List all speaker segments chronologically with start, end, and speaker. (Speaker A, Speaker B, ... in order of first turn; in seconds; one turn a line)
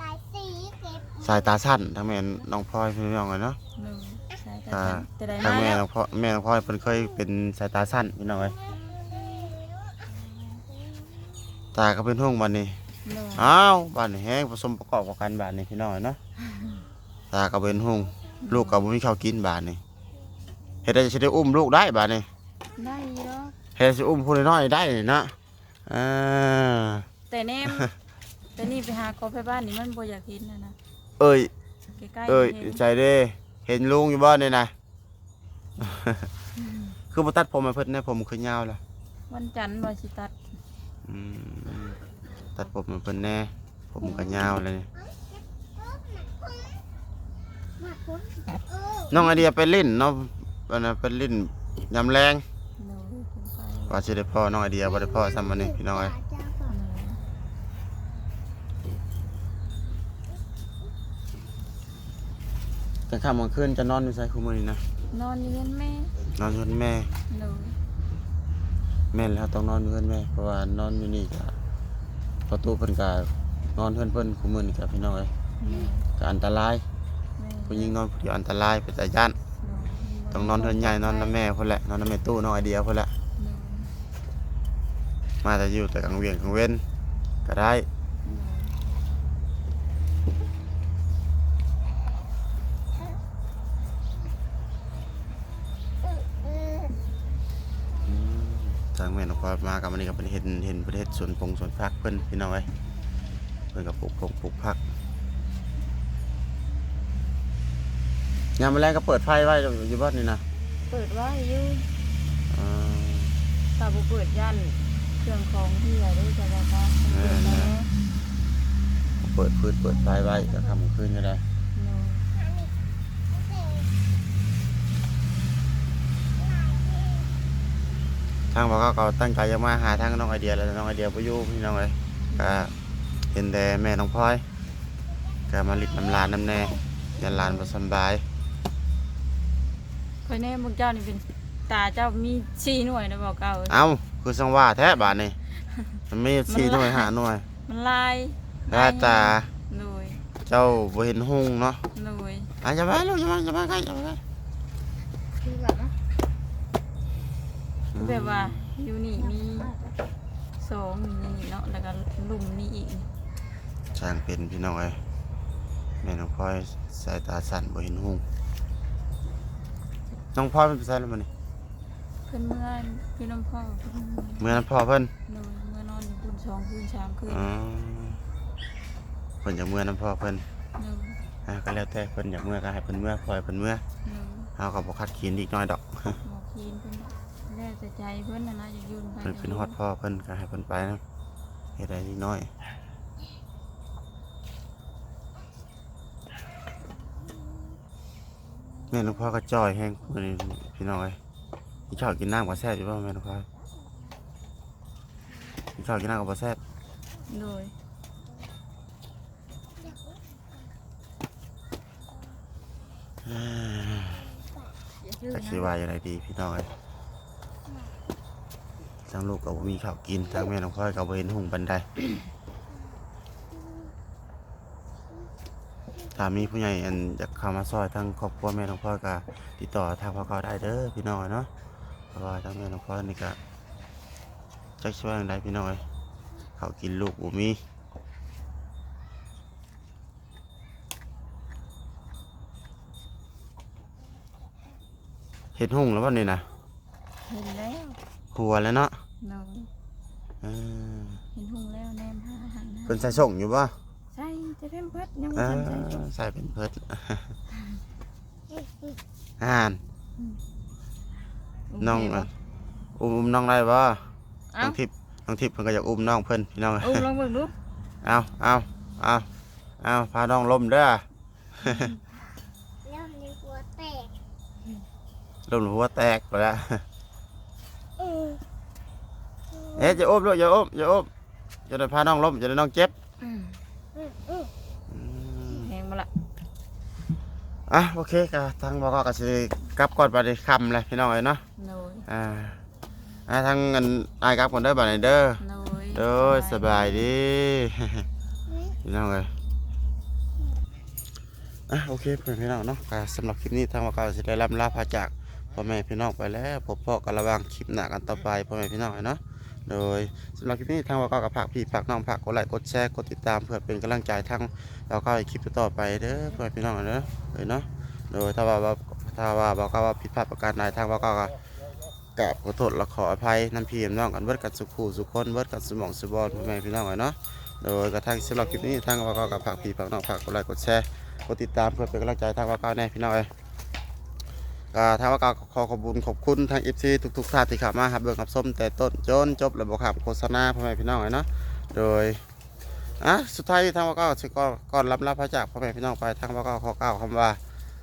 Speaker A: 0.3-1.0
Speaker B: 1.2-3.6
Speaker C: 3.7-5.8
Speaker B: 4.7-8.6
Speaker B: 11.7-12.8
Speaker C: 13.0-13.5
Speaker B: 13.3-16.2
Speaker B: 17.3-19.8
Speaker C: 18.4-18.8
Speaker B: 20.8-22.3
Speaker C: 22.8-23.6
Speaker B: 23.8-25.3
Speaker B: 25.9-27.1
Speaker C: 27.3-27.9
Speaker C: 28.6-30.8
Speaker B: 31.2-31.5
Speaker C: 32.0-32.8
Speaker B: 32.3-34.7
Speaker B: 35.8-36.3
Speaker C: 36.6-37.0
Speaker B: 37.1-38.8
Speaker C: 39.3-40.3
Speaker B: 41.0-42.0
Speaker B: 42.5-44.9
Speaker C: 44.0-44.5
Speaker A: 47.9-48.4
Speaker B: 49.1-52.4
Speaker C: 52.8-54.0
Speaker B: 53.9-56.2
Speaker C: 56.6-57.2
Speaker B: 63.1-64.8
Speaker C: 65.1-66.1
Speaker B: 66.3-67.1
Speaker C: 67.3-67.8
Speaker B: 69.1-71.5
Speaker B: 72.5-75.3
Speaker C: 75.6-76.1
Speaker B: 76.2-76.8
Speaker C: 77.4-78.0
Speaker B: 77.7-79.3
Speaker C: 79.6-81.4
Speaker B: 80.3-83.1
Speaker C: 83.4-83.9
Speaker B: 85.4-86.8
Speaker B: 87.4-87.9
Speaker C: 88.2-88.7
Speaker B: 98.0-102.7
Speaker B: 103.7-104.8
Speaker B: 108.6-110.4
Speaker C: 110.9-111.9
Speaker B: 112.5-113.4
Speaker C: 113.8-117.9
Speaker B: 117.1-117.7
Speaker B: 119.2-121.4
Speaker C: 121.7-122.2
Speaker B: 128.5-132.7
Speaker B: 133.3-134.4
Speaker B: 135.5-138.2
Speaker C: 137.2-137.7
Speaker C: 140.2-143.8
Speaker B: 143.7-145.4
Speaker B: 146.1-147.4
Speaker C: 146.5-147.1
Speaker C: 147.7-150.2
Speaker B: 148.7-149.5
Speaker B: 150.4-151.8
Speaker C: 151.9-152.5
Speaker B: 152.6-154.2
Speaker B: 157.9-158.7
Speaker C: 157.9-159.7
Speaker C: 160.6-163.1
Speaker B: 163.9-165.0
Speaker B: 166.0-168.2
Speaker B: 170.3-171.3
Speaker C: 172.3-174.6
Speaker B: 174.4-175.1
Speaker C: 175.2-177.5
Speaker B: 177.3-178.2
Speaker B: 179.4-180.4
Speaker C: 180.8-181.2
Speaker B: 181.4-183.8
Speaker C: 184.0-184.5
Speaker B: 184.6-186.2
Speaker C: 186.1-189.7
Speaker B: 189.2-191.0
Speaker B: 191.8-192.5
Speaker B: 198.9-201.2
Speaker B: 201.9-203.5
Speaker B: 205.8-206.6
Speaker C: 207.3-207.7
Speaker B: 213.2-214.3
Speaker C: 215.0-215.7
Speaker B: 215.3-216.7
Speaker B: 219.1-221.9
Speaker B: 226.1-231.5
Speaker B: 232.1-233.4
Speaker B: 234.8-235.8
Speaker B: 236.6-237.6
Speaker B: 245.5-246.5
Speaker C: 247.2-248.0
Speaker B: 248.3-249.0
Speaker C: 249.2-249.7
Speaker B: 250.4-251.2
Speaker C: 251.3-253.2
Speaker B: 252.9-253.7
Speaker C: 254.1-256.1
Speaker B: 255.3-257.4
Speaker C: 257.5-257.8
Speaker B: 259.4-259.8
Speaker C: 261.7-262.3
Speaker B: 261.8-262.3
Speaker B: 262.9-264.1
Speaker C: 264.5-264.8
Speaker B: 264.6-267.1
Speaker C: 266.8-267.5
Speaker B: 268.0-269.3
Speaker B: 269.8-271.0
Speaker B: 271.6-271.9
Speaker C: 271.6-272.0
Speaker A: 272.9-274.1
Speaker B: 275.5-276.8
Speaker B: 279.7-281.1
Speaker B: 281.7-282.9
Speaker C: 283.2-283.6
Speaker B: 284.9-285.7
Speaker C: 285.5-286.1
Speaker B: 287.7-291.4
Speaker C: 291.6-292.1
Speaker B: 292.1-292.6
Speaker B: 293.3-295.4
Speaker C: 295.4-297.1
Speaker B: 295.9-298.1
Speaker B: 298.8-299.3
Speaker B: 301.7-321.3
Speaker B: 322.1-333.3
Speaker B: 334.7-342.2
Speaker B: 343.0-347.4